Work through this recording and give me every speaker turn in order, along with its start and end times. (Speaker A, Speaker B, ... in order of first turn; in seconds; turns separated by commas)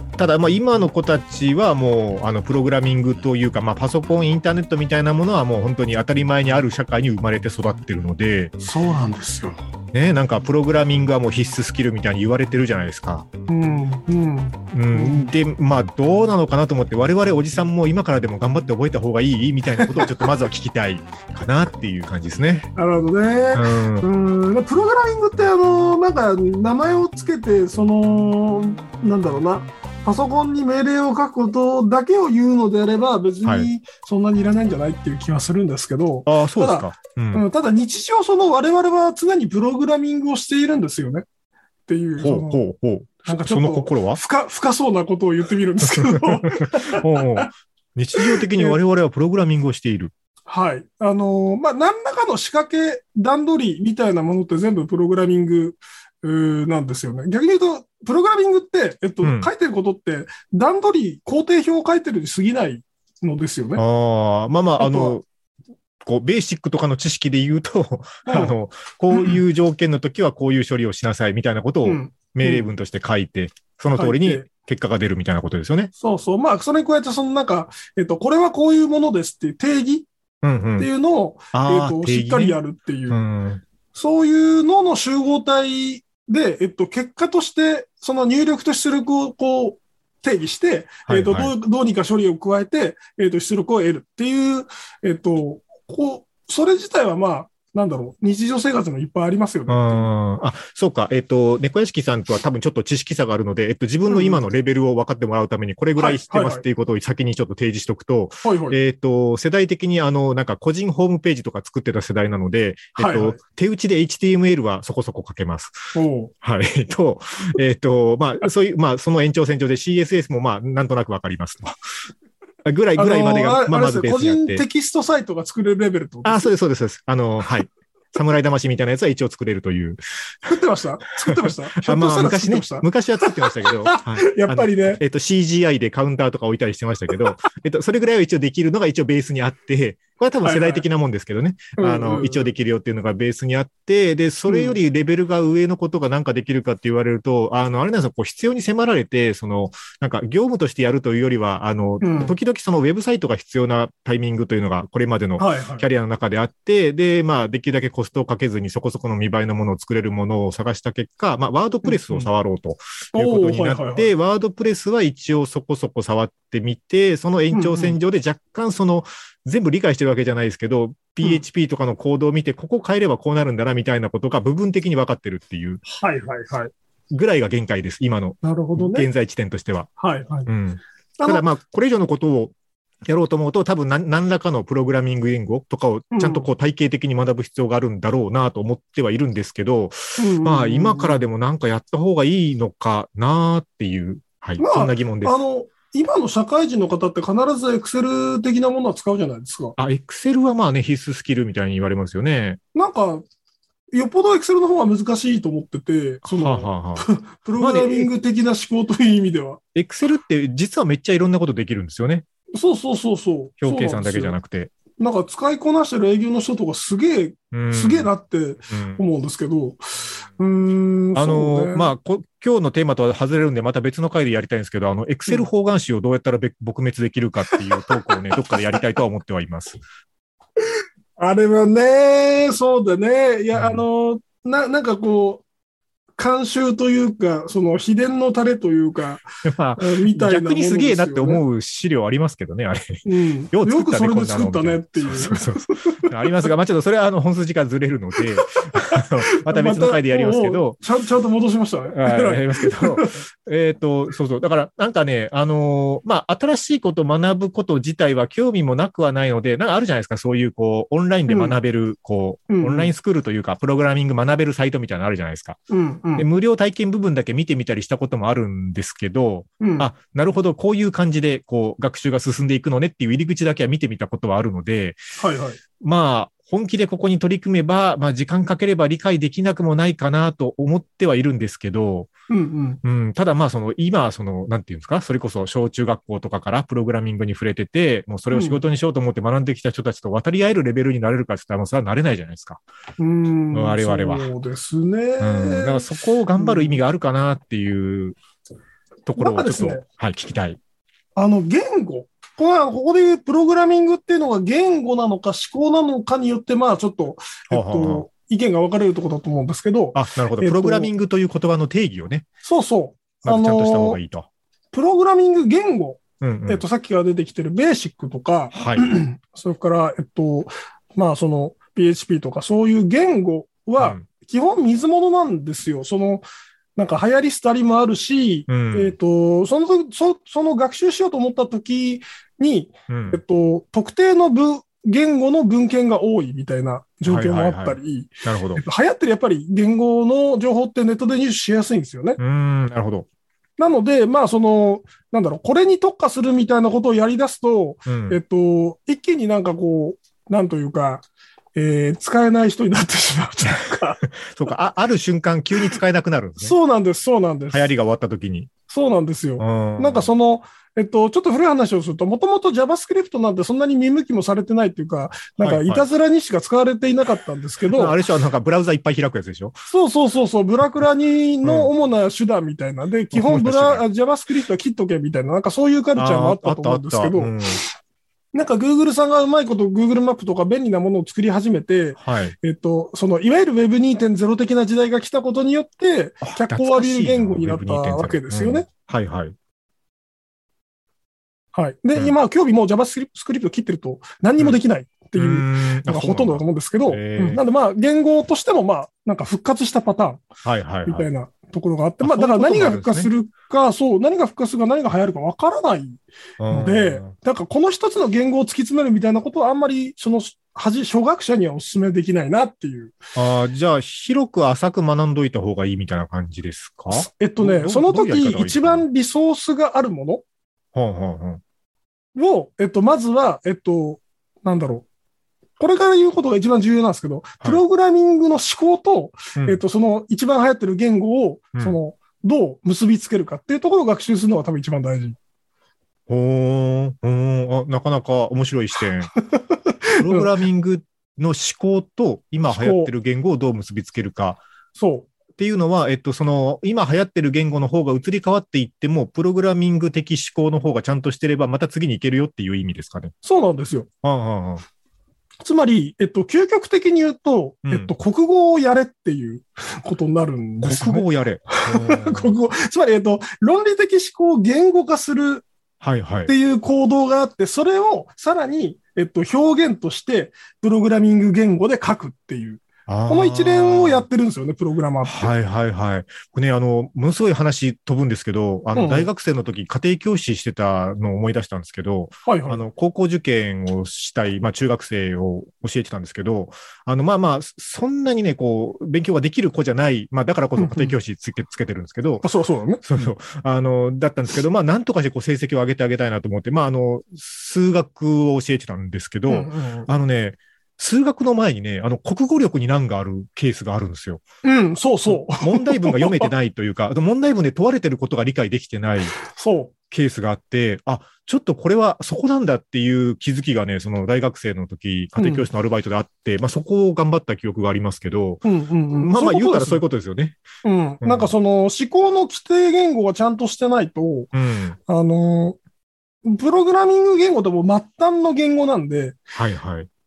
Speaker A: 0.2-8.6, Speaker B: 8.6-9.6, Speaker A: 9.9-13.3, Speaker B: 13.5-15.3, Speaker A: 14.7-22.7, Speaker B: 19.8-20.1, Speaker B: 22.8-41.2, Speaker A: 23.5-24.1, Speaker A: 33.4-33.7, Speaker A: 36.2-37.4, Speaker B: 41.9-42.6, Speaker A: 42.2-44.2, Speaker B: 43.2-47.5, Speaker A: 45.9-50.1, Speaker B: 48.2-48.8, Speaker B: 50.5-63.8, Speaker A: 59.2-59.5, Speaker A: 63.8-65.2, Speaker B: 64.8-65.2, Speaker A: 66.0-75.9, Speaker B: 68.2-68.5, Speaker B: 69.1-69.4, Speaker B: 71.8-72.7, Speaker B: 74.0-74.5, Speaker B: 76.0-80.1, Speaker A: 80.4-80.9, Speaker B: 80.8-83.2, Speaker A: 81.5-83.6, Speaker B: 83.9-100.1, Speaker A: 91.1-91.5, Speaker A: 99.7-121.8, Speaker B: 104.1-104.4, Speaker B: 106.0-106.6, Speaker B: 108.4-108.8, Speaker B: 113.0-113.4, Speaker B: 115.9-116.3, Speaker A: 122.6-124.6, Speaker B: 123.0-126.5, Speaker A: 126.2-130.0, Speaker B: 130.4-135.0, Speaker A: 131.8-175.8, Speaker B: 140.4-140.8, Speaker B: 141.8-142.5, Speaker B: 144.5-144.8, Speaker B: 152.0-152.3, Speaker B: 155.4-155.9, Speaker B: 161.8-162.3, Speaker B: 163.1-164.1, Speaker B: 167.5-167.9, Speaker B: 175.9-176.7, Speaker A: 177.1-179.9, Speaker B: 178.4-179.1, Speaker B: 180.0-180.5, Speaker A: 180.5-182.5, Speaker B: 181.2-181.4, Speaker A: 183.1-195.4, Speaker B: 186.1-186.5, Speaker B: 190.2-191.2, Speaker B: 194.6-199.8, Speaker A: 199.8-202.6, Speaker B: 202.7-203.2, Speaker B: 203.9-209.6, Speaker A: 206.2-207.1, Speaker A: 207.6-208.1, Speaker A: 209.7-212.2, Speaker B: 212.5-214.4, Speaker A: 213.6-214.7, Speaker B: 215.0-221.9, Speaker A: 217.5-218.1, Speaker A: 218.7-219.0, Speaker A: 221.1-229.8, Speaker B: 231.2-235.4, Speaker A: 233.5-233.8, Speaker B: 236.2-239.2, Speaker A: 239.4-250.8, Speaker B: 239.8-241.4, Speaker B: 243.0-246.1, Speaker B: 248.7-253.2, Speaker A: 251.9-265.6, Speaker B: 261.3-261.6, Speaker B: 262.5-262.9, Speaker B: 265.7-266.2, Speaker A: 266.2-275.0, Speaker B: 269.6-269.9, Speaker B: 275.2-275.6, Speaker A: 275.8-282.1, Speaker B: 282.3-282.8, Speaker A: 282.8-292.6, Speaker B: 288.3-288.6, Speaker B: 293.0-296.8, Speaker A: 293.5-294.3, Speaker A: 295.2-298.2, Speaker A: 299.1-300.6, Speaker B: 299.2-299.8, Speaker B: 301.1-310.9, Speaker A: 307.5-308.1, Speaker A: 309.9-312.3, Speaker B: 312.4-314.0, Speaker A: 313.2-314.3, Speaker B: 314.7-326.2, Speaker A: 316.2-316.6, Speaker A: 318.5-318.9, Speaker A: 323.8-324.1, Speaker B: 326.8-342.2, Speaker A: 328.5-328.9, Speaker A: 332.9-333.2, Speaker A: 337.0-338.6, Speaker A: 342.2-343.1, Speaker B: 343.6-354.0, Speaker A: 347.9-348.2, Speaker A: 354.0-356.5, Speaker B: 356.4-357.7, Speaker A: 357.5-358.5, Speaker B: 358.7-367.9, Speaker A: 359.4-360.1, Speaker A: 365.4-365.8, Speaker A: 367.7-369.6, Speaker B: 369.7-377.6, Speaker A: 371.4-371.7, Speaker A: 373.1-373.8, Speaker A: 375.9-377.6, Speaker B: 378.3-388.7, Speaker A: 382.0-382.4, Speaker A: 386.2-389.3, Speaker B: 391.5-400.2, Speaker A: 395.1-397.4, Speaker A: 400.4-401.1, Speaker B: 400.9-413.0, Speaker A: 402.0-403.1, Speaker A: 406.4-407.1, Speaker A: 413.1-418.8, Speaker B: 416.9-420.2, Speaker A: 420.7-421.4, Speaker B: 422.1-424.9, Speaker B: 425.6-435.2, Speaker A: 429.4-429.6, Speaker A: 436.1-439.1, Speaker B: 439.3-440.3, Speaker A: 440.0-444.4, Speaker B: 442.5-442.9, Speaker B: 444.7-445.1, Speaker A: 445.4-453.1, Speaker B: 453.2-453.9, Speaker A: 454.0-454.6, Speaker B: 455.4-465.4, Speaker A: 457.6-457.9, Speaker A: 460.6-462.3, Speaker A: 465.8-466.3, Speaker B: 466.3-475.3, Speaker A: 472.9-474.0, Speaker A: 475.0-492.2, Speaker B: 478.7-479.1, Speaker B: 482.2-482.6, Speaker B: 490.6-490.9, Speaker B: 492.2-492.8, Speaker A: 492.8-504.2, Speaker B: 499.3-499.9, Speaker B: 504.4-506.3, Speaker A: 505.1-509.1, Speaker B: 509.2-509.7, Speaker A: 509.9-518.4, Speaker B: 515.1-515.5, Speaker B: 518.4-519.8, Speaker A: 519.0-520.4, Speaker B: 520.6-524.3, Speaker A: 521.0-521.3, Speaker A: 524.3-524.8, Speaker B: 524.9-525.6, Speaker B: 526.2-529.2, Speaker A: 529.3-529.9